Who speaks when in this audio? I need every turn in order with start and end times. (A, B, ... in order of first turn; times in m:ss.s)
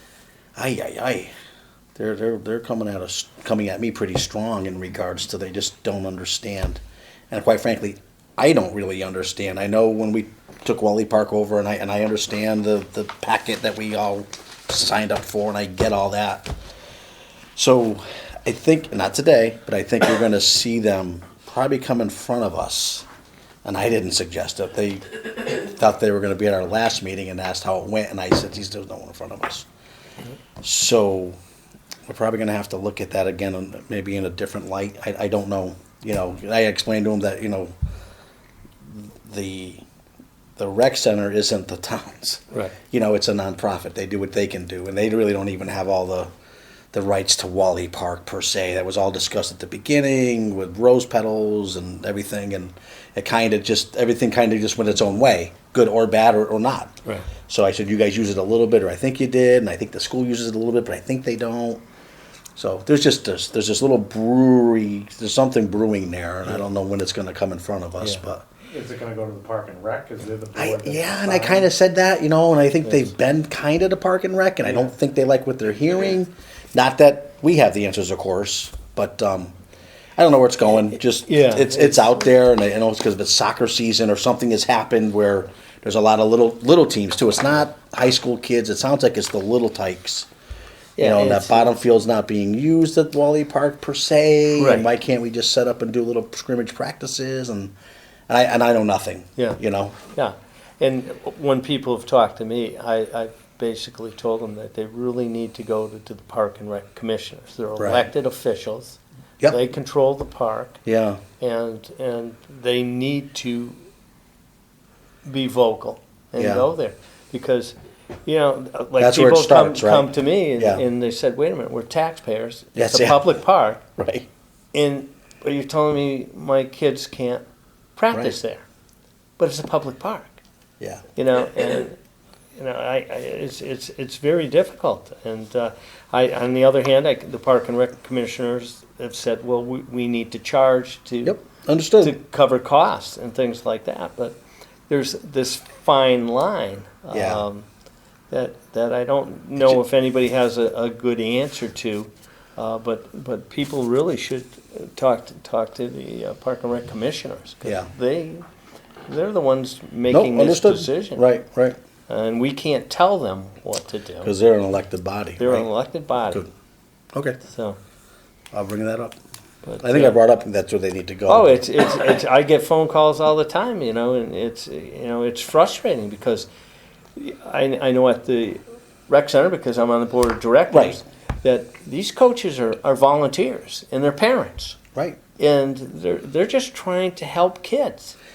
0:00.5-0:01.3 A
0:02.0-0:16.5 A
0:17.6-0:23.0 A
0:23.6-0:29.7 A
0:30.6-0:31.4 A
0:32.1-0:37.7 A
0:38.8-0:39.8 A
0:40.6-0:46.3 A
0:46.9-0:56.9 A
0:57.4-1:01.8 A
1:02.6-1:08.4 A
1:08.6-1:11.7 B
1:10.5-1:19.5 A
1:12.8-1:13.1 C
1:20.2-1:30.3 A
1:21.2-1:22.0 C
1:31.0-1:31.7 C
1:31.0-1:37.7 A
1:34.6-1:34.9 C
1:38.3-1:40.0 A
1:40.1-1:50.8 C
1:47.8-1:48.1 A
1:50.8-1:51.2 A
1:51.4-1:53.8 C
1:55.2-1:57.7 C
1:56.4-1:56.7 A
1:58.2-2:03.8 C
1:59.0-2:00.8 A
2:02.7-2:03.4 A
2:04.0-2:04.3 A
2:04.7-2:07.4 C
2:08.0-2:08.6 C
2:08.1-2:08.4 A
2:09.4-2:10.4 C
2:10.8-2:11.0 A
2:11.2-2:12.0 C
2:12.5-2:21.4 C
2:21.2-2:22.2 A
2:22.0-2:24.4 C
2:24.9-2:27.7 C
2:27.1-2:27.4 A
2:28.3-2:38.4 C
2:37.6-2:37.9 A
2:39.1-2:41.2 C
2:40.1-2:41.8 A
2:42.1-2:44.3 C
2:44.2-2:46.5 A
2:45.4-2:46.4 C
2:47.1-2:47.4 A
2:47.4-2:47.8 C
2:48.5-2:49.2 A
2:49.6-2:50.2 C
2:49.8-2:51.6 A
2:51.3-2:56.5 C
2:57.2-3:04.8 C
3:00.7-3:01.0 A
3:05.4-3:08.2 C